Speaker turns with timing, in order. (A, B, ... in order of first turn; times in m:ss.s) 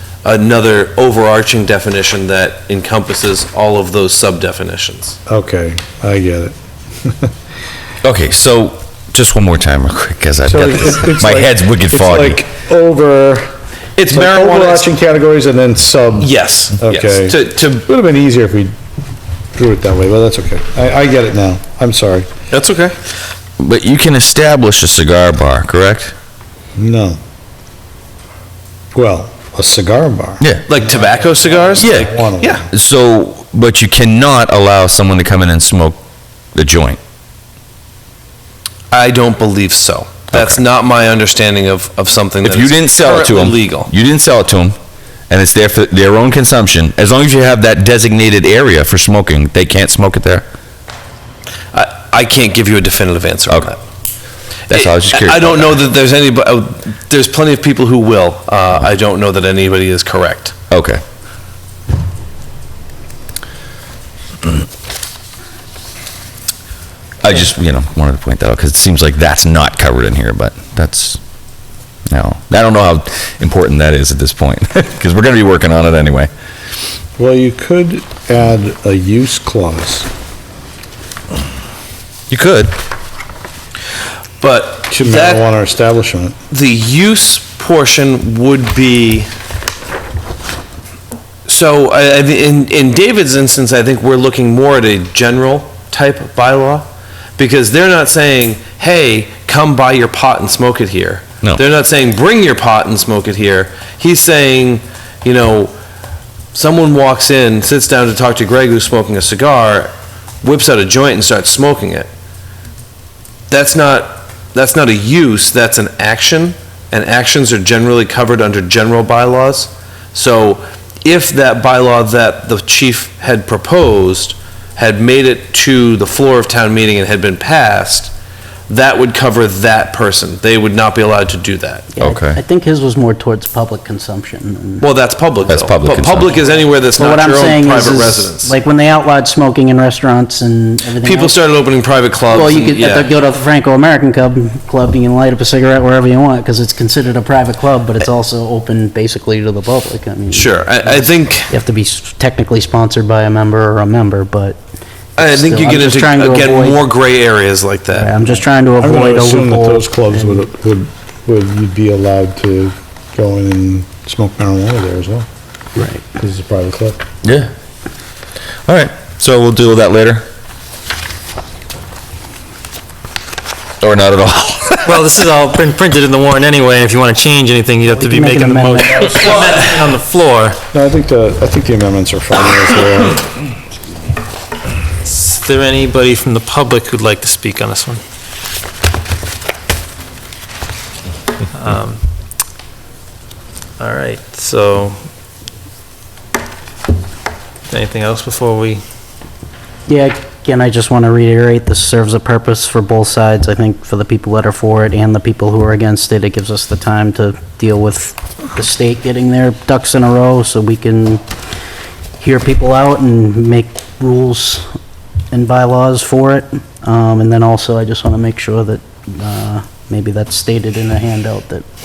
0:00.2-0:05.2 A
0:05.3-0:07.3 B
0:08.0-0:12.4 C
0:10.4-0:13.5 B
0:14.0-0:14.9 A
0:14.1-0:18.7 B
0:16.2-0:17.8 A
0:19.6-0:22.3 B
0:22.5-0:23.0 A
0:23.6-0:26.1 C
0:26.8-0:27.2 B
0:28.9-0:32.6 B
0:30.7-0:32.6 A
0:31.8-0:36.0 C
0:36.6-0:37.0 C
0:38.9-0:43.9 A
0:40.3-0:40.6 C
0:42.4-0:44.8 C
0:45.3-0:50.5 C
0:51.7-0:53.8 A
0:54.7-0:55.8 C
0:54.7-1:00.5 A
1:00.7-1:01.0 C
1:07.2-1:11.2 C
1:12.1-1:16.3 C
1:17.2-1:20.1 B
1:22.3-1:22.7 C
1:24.4-1:25.5 A
1:24.9-1:26.4 B
1:26.5-1:29.3 A
1:31.5-1:36.9 A
1:37.4-1:45.7 A
1:46.5-1:52.1 A
1:53.5-2:08.1 A
2:08.7-2:11.9 A
2:12.0-2:14.9 D
2:12.0-2:12.4 C
2:14.8-2:18.6 A
2:15.5-2:16.4 C
2:16.4-2:21.4 D
2:21.0-2:23.1 A
2:22.3-2:34.6 D
2:30.3-2:31.5 A
2:35.2-2:36.9 D
2:35.2-2:38.1 A
2:37.9-2:40.5 D
2:38.8-2:45.3 B
2:45.8-2:46.0 D
2:46.2-2:47.0 B
2:47.2-2:47.5 C
2:48.6-2:50.2 C
2:53.8-2:55.0 C
2:54.8-3:00.6 E
2:58.0-2:59.5 D
3:00.7-3:03.2 B
3:05.0-3:08.0 E
3:11.5-3:12.0 E
3:13.8-3:15.1 E
3:17.7-3:18.8 E
3:19.9-3:31.2 D
3:32.2-3:34.7 D
3:35.3-3:41.7 D